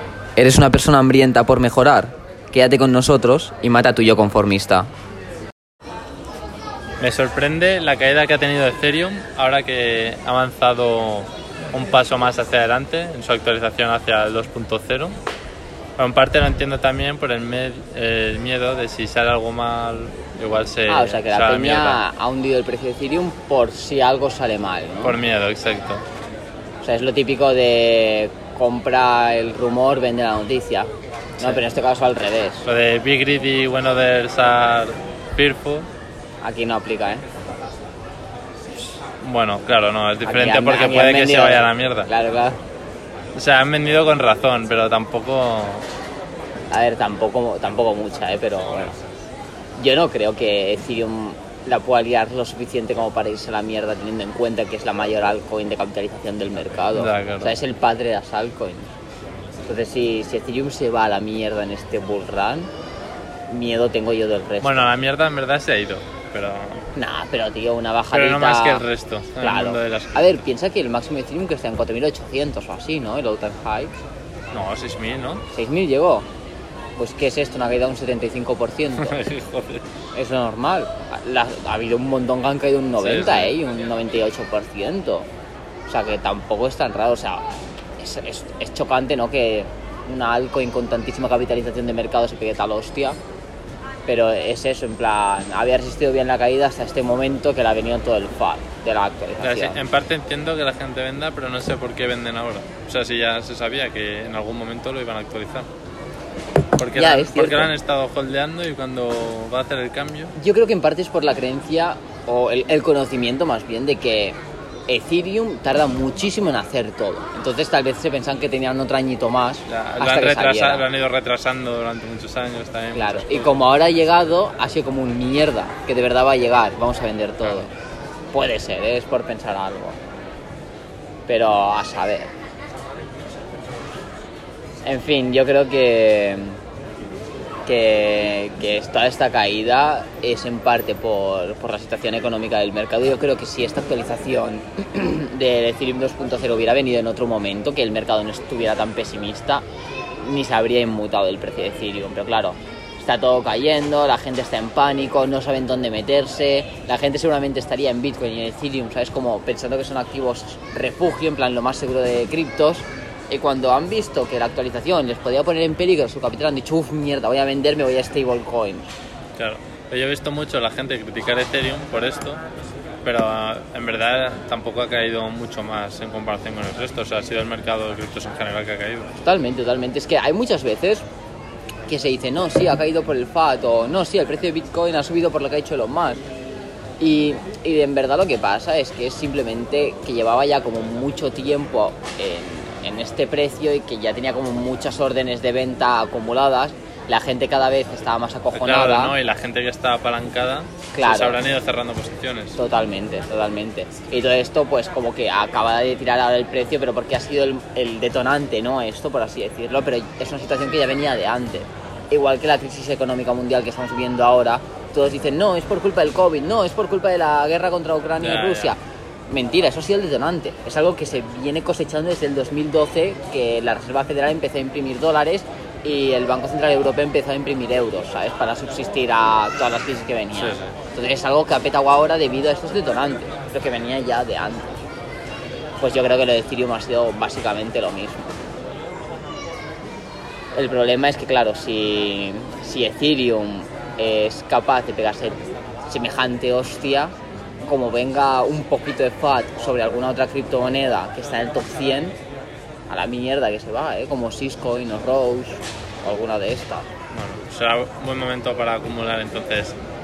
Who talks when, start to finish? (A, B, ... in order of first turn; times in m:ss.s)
0:00.4-0:04.9 A
0:07.0-0:15.2 B
0:16.0-0:22.0 B
0:20.9-0:25.2 A
0:25.0-0:26.0 B
0:26.8-0:32.6 A
0:32.6-0:35.9 B
0:36.4-0:37.2 A
0:39.2-0:42.1 B
0:40.2-0:42.6 A
0:43.3-0:45.9 B
0:46.7-0:49.0 A
0:49.8-0:58.9 A
0:56.9-0:57.5 B
0:59.6-1:02.7 A
1:03.5-1:04.9 A
1:04.6-1:06.8 B
1:06.9-1:08.8 A
1:08.1-1:10.2 B
1:09.4-1:14.0 A
1:14.5-1:15.4 B
1:15.5-1:16.3 A
1:17.0-1:19.2 A
1:19.0-1:19.8 B
1:20.1-1:25.3 A
1:23.0-1:23.5 B
1:25.9-1:27.4 A
1:28.0-1:33.2 A
1:34.0-1:39.8 A
1:39.4-1:45.7 B
1:46.8-1:50.3 B
1:46.9-1:47.7 A
1:50.4-1:54.4 A
1:54.9-2:00.8 A
1:59.7-2:03.5 B
2:02.9-2:07.7 A
2:08.3-2:10.0 A
2:11.3-2:12.3 A
2:14.8-2:16.6 A
2:17.6-2:29.6 A
2:30.2-2:48.9 A
2:49.4-2:52.4 B
2:53.0-2:59.1 B
2:59.2-3:01.0 A
3:01.9-3:06.2 A
3:07.0-3:19.2 A
3:18.5-3:22.6 B
3:20.9-3:21.4 A
3:22.6-3:54.8 A
3:38.2-3:38.7 B
3:50.3-3:50.7 B
3:55.8-3:58.4 A
4:00.5-4:07.1 A
4:07.6-4:12.2 A
4:12.9-4:16.9 A
4:17.1-4:19.8 B